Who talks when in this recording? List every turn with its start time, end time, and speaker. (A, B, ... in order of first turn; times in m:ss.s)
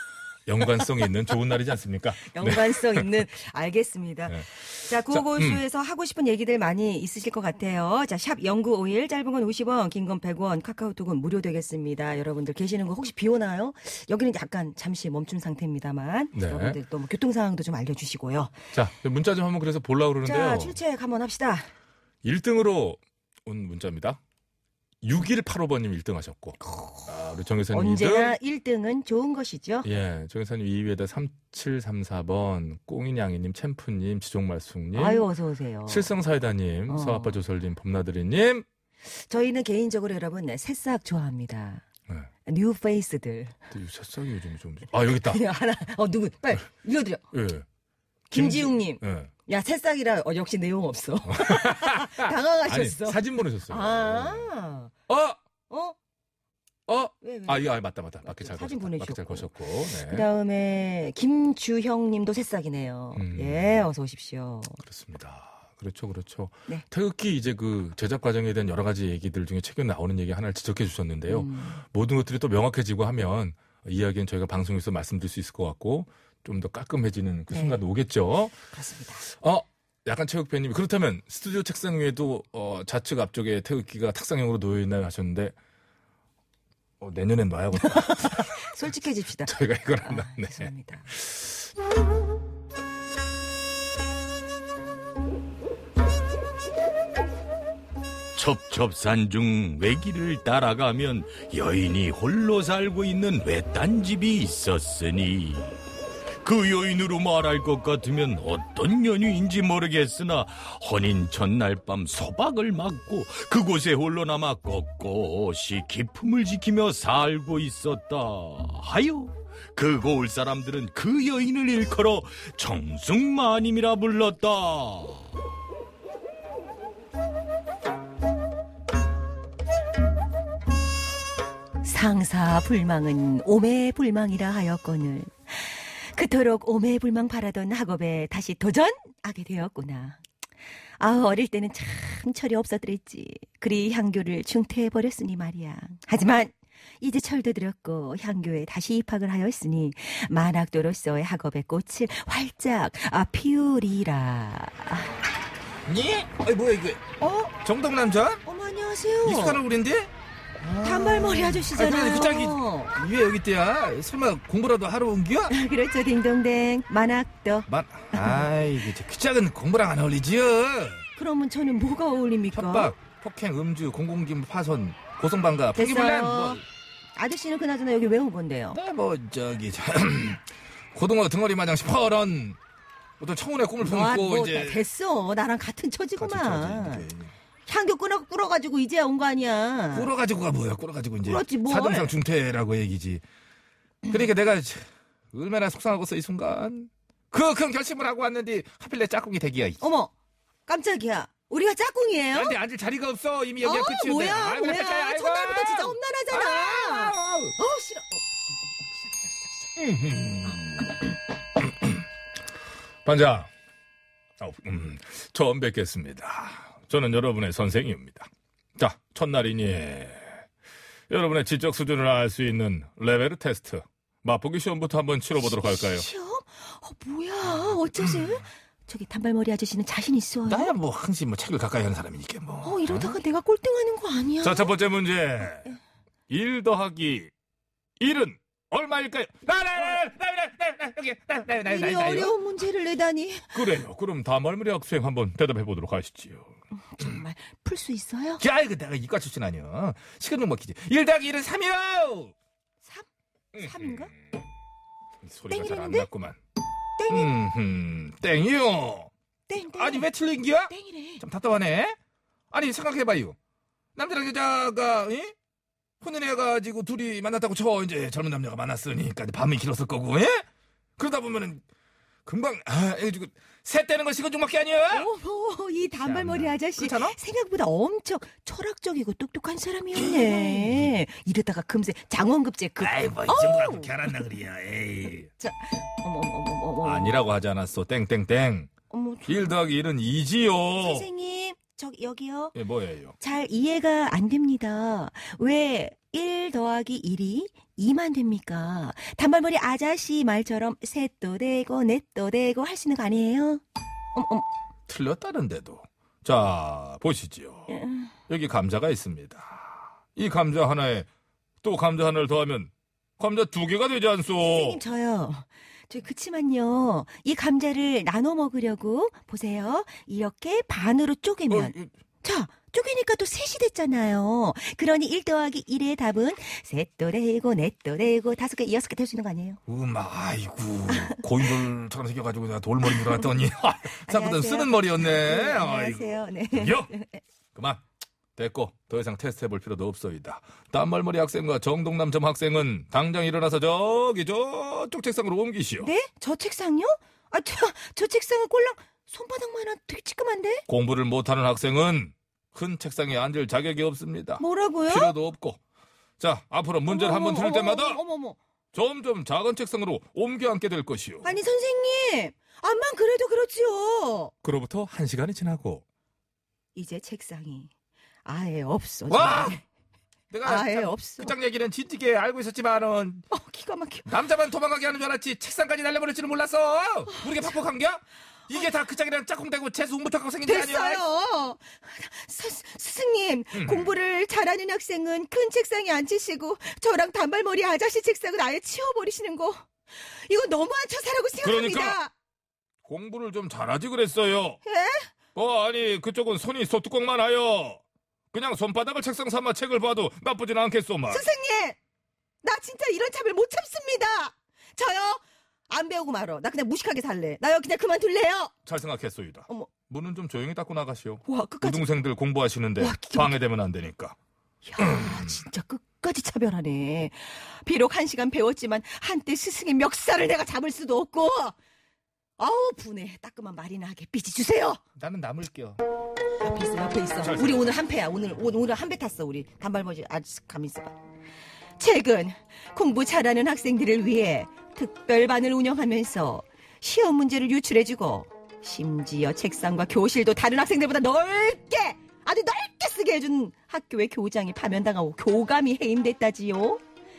0:00.4-0:03.1 A
0:02.2-0:18.6 B
0:04.3-0:05.6 A
0:16.3-0:16.8 A
0:18.7-0:20.8 A
0:20.2-0:21.7 B
0:22.2-0:24.2 A
0:25.0-0:28.3 A
0:26.6-0:27.1 B
0:27.7-0:29.9 B
0:29.8-0:35.3 A
0:34.9-0:36.1 B
0:35.9-0:38.6 A
0:36.9-0:37.3 B
0:39.0-0:41.8 B
0:42.4-0:43.6 B
0:43.7-0:45.4 A
0:45.0-0:47.2 B
0:47.3-0:47.6 A
0:48.3-0:54.9 B
0:48.3-0:49.3 A
0:51.2-0:54.5 A
0:55.1-0:55.4 A
0:55.7-0:56.0 B
0:56.9-1:00.2 A
0:57.2-0:57.7 B
0:58.2-0:59.5 B
1:00.0-1:04.8 B
1:03.1-1:03.8 A
1:04.8-1:18.6 A
1:11.3-1:11.8 B
1:17.5-1:17.8 B
1:18.7-1:19.2 B
1:19.3-1:25.5 A
1:27.0-1:28.7 A
1:27.7-1:31.1 B
1:29.4-1:31.6 A
1:38.3-1:45.8 C
1:46.4-2:05.3 C
2:11.8-2:20.2 B
2:21.0-2:35.2 B
2:35.8-2:37.0 A
2:37.2-2:37.5 B
2:37.6-2:38.4 A
2:38.4-2:39.6 B
2:39.2-2:45.5 A
2:40.8-2:42.9 B
2:45.5-2:48.5 B
2:47.7-2:51.0 A
2:51.2-2:52.9 B
2:52.5-2:56.6 A
2:55.7-2:56.6 B
2:57.2-2:58.8 B
2:58.7-3:02.6 A
3:03.2-3:04.8 A
3:03.8-3:07.1 B
3:06.2-3:07.3 A
3:07.7-3:10.1 B
3:09.9-3:13.2 A
3:11.2-3:12.1 B
3:14.1-3:19.8 A
3:19.8-3:20.1 B
3:20.7-3:22.5 B
3:22.3-3:27.6 A
3:23.6-3:28.4 B
3:29.8-3:31.0 A
3:31.6-3:32.0 A
3:33.0-3:33.5 A
3:34.4-3:40.4 A
3:41.1-3:46.0 A
3:45.7-3:50.7 B
3:48.0-3:48.3 A
3:50.5-3:53.2 A
3:52.6-3:54.7 B
3:54.4-3:55.7 A
3:56.3-3:57.3 A
3:58.0-4:02.4 A
4:01.6-4:03.6 B
4:03.5-4:07.1 A
4:06.9-4:08.4 B
4:08.4-4:12.3 A
4:13.5-4:14.1 A
4:13.6-4:14.1 B
4:15.2-4:16.4 A
4:15.5-4:16.1 B
4:17.0-4:17.3 B
4:17.1-4:19.1 A
4:19.5-4:20.1 B
4:19.6-4:22.0 A
4:20.7-4:21.2 B
4:22.5-4:23.4 A
4:24.0-4:25.3 A
4:26.0-4:30.4 A
4:31.0-4:31.6 A
4:32.2-4:35.1 A
4:34.9-4:43.9 B
4:36.0-4:37.2 A
4:39.9-4:40.9 A
4:42.8-4:45.3 A
4:45.4-4:47.2 B
4:46.8-4:48.7 A
4:48.9-4:49.5 B
4:49.2-4:51.1 A
4:50.8-4:52.5 B
4:52.5-4:53.2 A
4:53.2-5:03.6 B
5:04.1-5:04.4 B
5:04.9-5:07.7 A
5:07.7-5:08.1 B
5:08.3-5:11.1 A
5:11.6-5:14.8 A
5:14.4-5:29.6 B
5:21.5-5:21.9 A
5:29.7-5:36.9 A
5:30.9-5:31.2 B
5:32.9-5:33.2 B
5:34.0-5:37.2 B
5:37.5-5:37.8 A
5:38.4-5:45.9 A
5:45.8-5:50.6 B
5:50.7-5:55.6 A
5:54.4-5:55.1 B
5:56.2-5:58.0 A
5:56.9-5:58.4 B
5:58.7-6:01.3 A
6:01.2-6:04.3 B
6:04.4-6:05.8 A
6:06.7-6:07.7 B
6:08.2-6:09.6 B
6:09.1-6:09.6 A
6:10.3-6:13.2 A
6:10.4-6:11.3 B
6:13.3-6:14.1 B
6:14.0-6:21.0 A
6:20.4-6:32.1 B
6:23.5-6:23.9 A
6:31.4-6:32.0 A
6:32.8-6:34.6 A
6:34.6-6:35.1 B
6:35.3-6:37.8 A
6:38.3-6:41.2 A
6:41.1-6:41.8 B
6:42.4-6:48.5 B
6:48.6-6:54.2 A
6:51.2-6:51.8 B
6:52.8-6:53.4 B
6:54.6-7:01.5 B
6:54.8-6:55.4 A
7:02.4-7:04.8 B
7:05.0-7:05.8 A
7:06.4-7:10.9 B
7:07.2-7:07.7 A
7:11.8-7:26.8 B